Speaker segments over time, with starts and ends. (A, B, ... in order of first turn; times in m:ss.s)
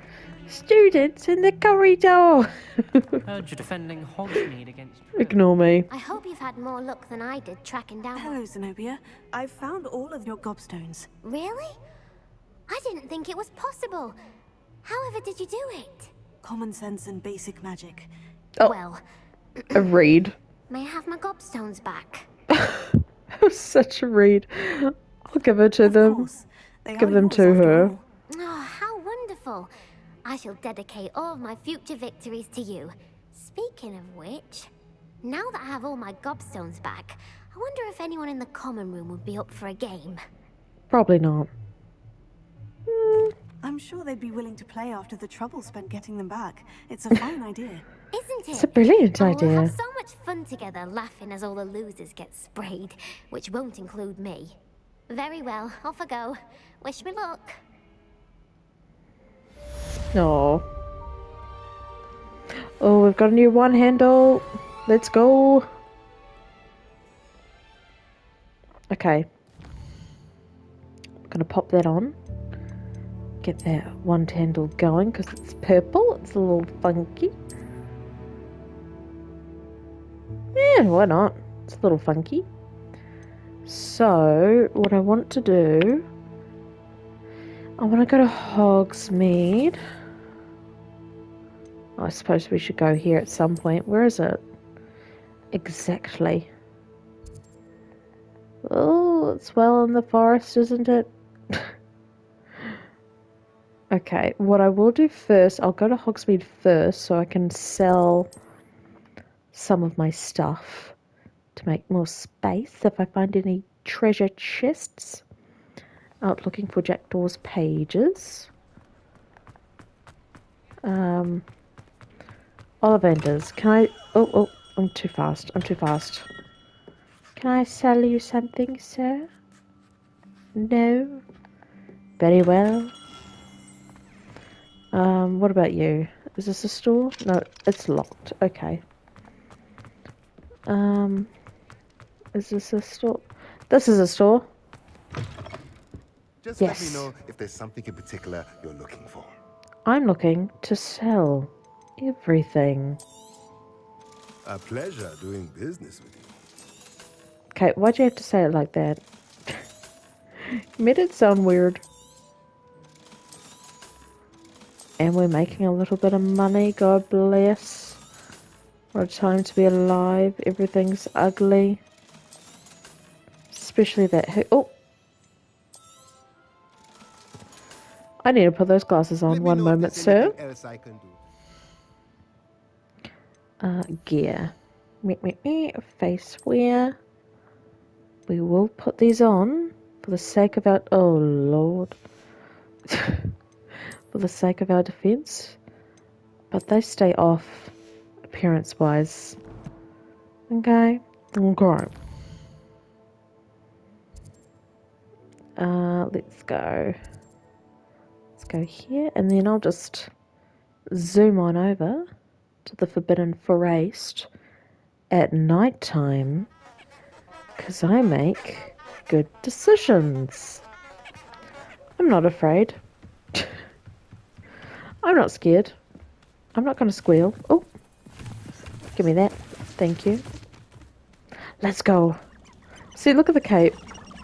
0:00.5-0:03.2 A
0:03.2-0:05.4 B
0:05.2-0:05.9 A
0:05.9-0:08.4 C
0:08.1-0:11.1 D
0:11.2-0:11.8 C
0:12.7-0:14.2 C
0:14.8-0:16.1 C
0:16.4-0:18.1 D
0:18.6-0:19.0 C
0:19.7-0:20.3 A
0:20.7-0:22.3 C
0:22.5-0:26.3 A
0:25.8-0:28.0 D
0:27.0-0:27.9 A
0:28.3-0:29.7 C
0:30.2-0:34.7 C
0:35.2-0:40.2 C
0:40.9-0:41.5 A
0:42.9-0:43.3 A
0:43.6-0:47.8 D
0:48.1-0:54.6 C
0:48.5-0:49.7 A
0:55.1-0:57.6 C
1:00.1-1:00.6 A
1:02.8-1:05.7 A
1:08.9-1:09.3 A
1:11.3-1:12.1 A
1:13.4-1:17.3 A
1:20.5-1:22.4 A
1:23.6-1:26.0 A
1:27.8-1:29.8 A
1:32.0-1:34.4 A
1:35.5-1:36.5 A
1:38.6-1:41.7 A
1:43.9-1:48.3 A
1:49.5-1:50.9 A
1:51.5-1:55.2 A
1:56.2-1:58.5 A
2:00.8-2:01.4 A
2:02.8-2:06.3 A
2:07.4-2:09.3 A
2:10.6-2:11.2 A
2:12.2-2:12.9 A
2:14.9-2:18.8 A
2:20.6-2:21.3 A
2:22.3-2:24.5 A
2:26.4-2:29.3 E
2:26.6-2:27.1 A
2:29.8-2:33.0 A
2:34.4-2:36.3 E
2:37.5-2:39.6 A
2:40.4-2:41.8 A
2:45.0-2:48.0 A
2:48.9-2:51.8 A
2:53.5-2:54.7 A
2:58.2-3:00.3 A
2:59.3-3:01.2 E
3:03.6-3:07.0 A
3:08.3-3:11.9 A
3:12.9-3:13.3 A
3:14.1-3:15.6 A
3:16.5-3:17.7 A
3:18.3-3:19.4 A
3:20.5-3:21.9 A
3:25.6-3:27.0 A
3:28.4-3:30.1 A
3:30.9-3:32.0 A
3:32.6-3:34.3 A
3:35.1-3:36.5 A
3:37.6-3:40.6 A
3:42.0-3:42.8 A
3:45.0-3:45.7 A
3:46.5-3:47.7 A
3:49.0-3:50.2 A
3:51.6-3:52.2 A
3:52.9-3:53.8 A